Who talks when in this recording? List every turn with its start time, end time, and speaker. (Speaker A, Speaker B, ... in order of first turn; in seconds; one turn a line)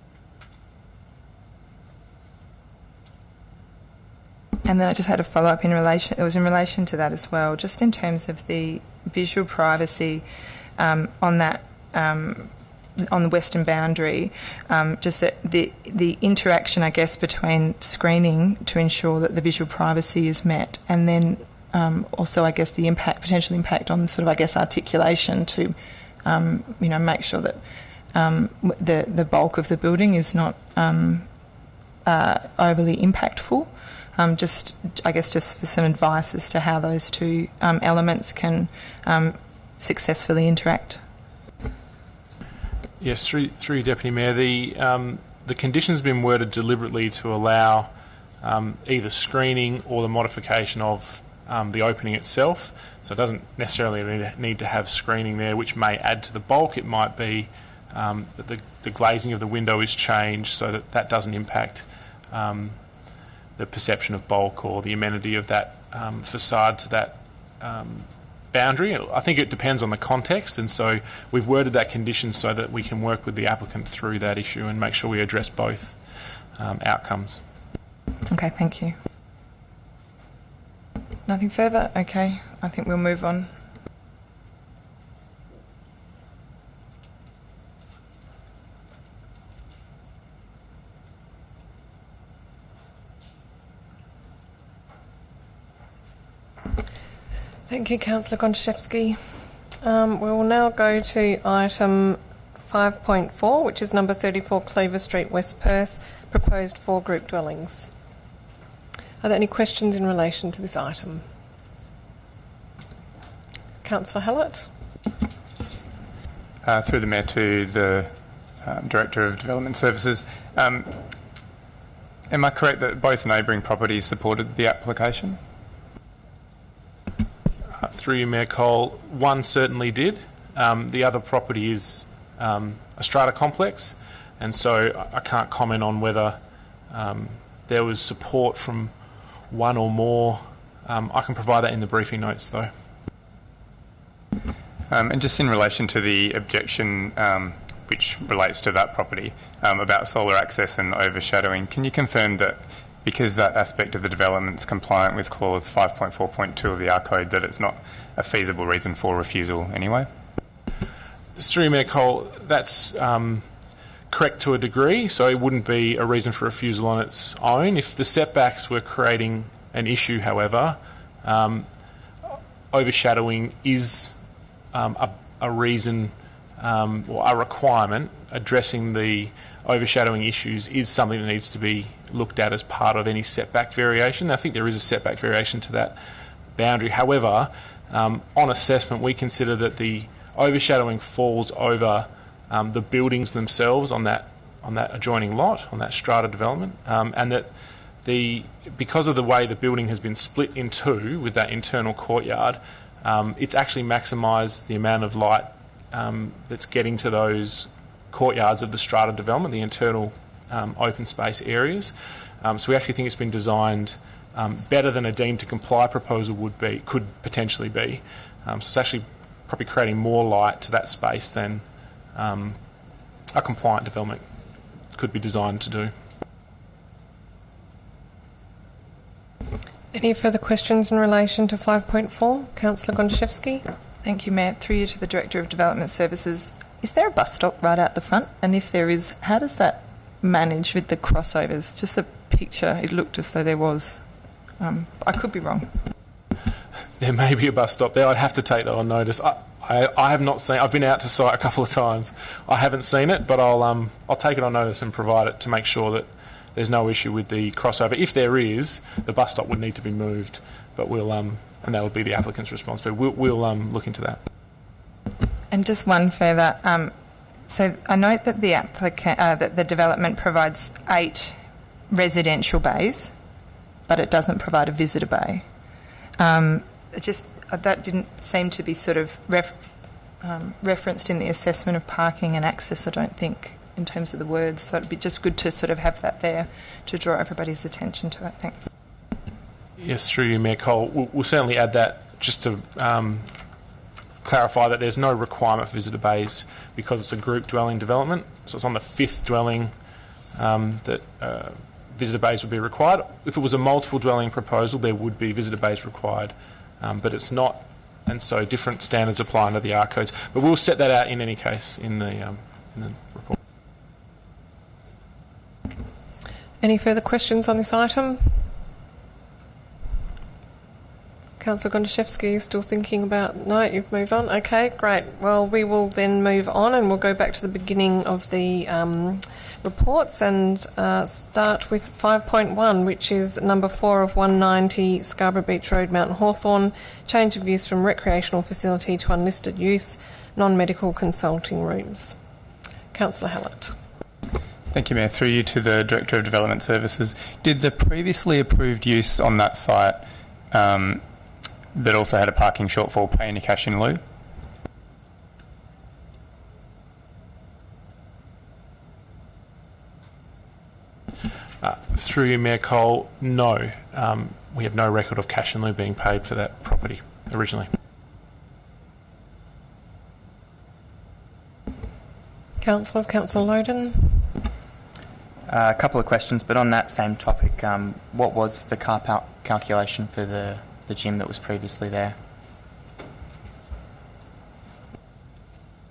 Speaker A: 4.6-27.6
Speaker A: 28.1-31.3
Speaker A: 32.0-41.0
Speaker B: 43.0-62.8
Speaker B: 63.6-77.4
Speaker A: 78.3-79.0
Speaker A: 81.2-83.5
Speaker C: 97.7-107.9
Speaker C: 109.2-111.2
Speaker C: 113.8-114.7
Speaker D: 116.6-120.9
Speaker D: 122.3-125.4
Speaker B: 127.8-136.4
Speaker B: 136.9-138.9
Speaker B: 139.5-142.7
Speaker D: 144.9-160.1
Speaker B: 161.3-163.4
Speaker B: 164.1-171.7
Speaker B: 172.2-174.2
Speaker B: 174.7-185.9
Speaker B: 186.6-197.5
Speaker B: 198.0-221.6
Speaker B: 222.1-222.6
Speaker B: 223.3-224.2
Speaker B: 224.9-225.9
Speaker C: 229.9-233.6
Speaker A: 234.0-244.1
Speaker A: 244.6-245.8
Speaker B: 247.0-264.2
Speaker A: 265.5-266.9
Speaker A: 267.5-271.4
Speaker A: 271.9-273.1
Speaker A: 273.9-275.4
Speaker A: 276.2-279.6
Speaker A: 280.2-288.6
Speaker B: 289.8-293.3
Speaker B: 294.2-299.7
Speaker B: 300.3-313.4
Speaker C: 316.6-318.5
Speaker C: 321.4-342.1
Speaker C: 342.9-343.7
Speaker D: 344.7-351.0
Speaker D: 351.7-354.0
Speaker B: 361.6-367.7
Speaker C: 372.6-374.3
Speaker E: 375.5-382.2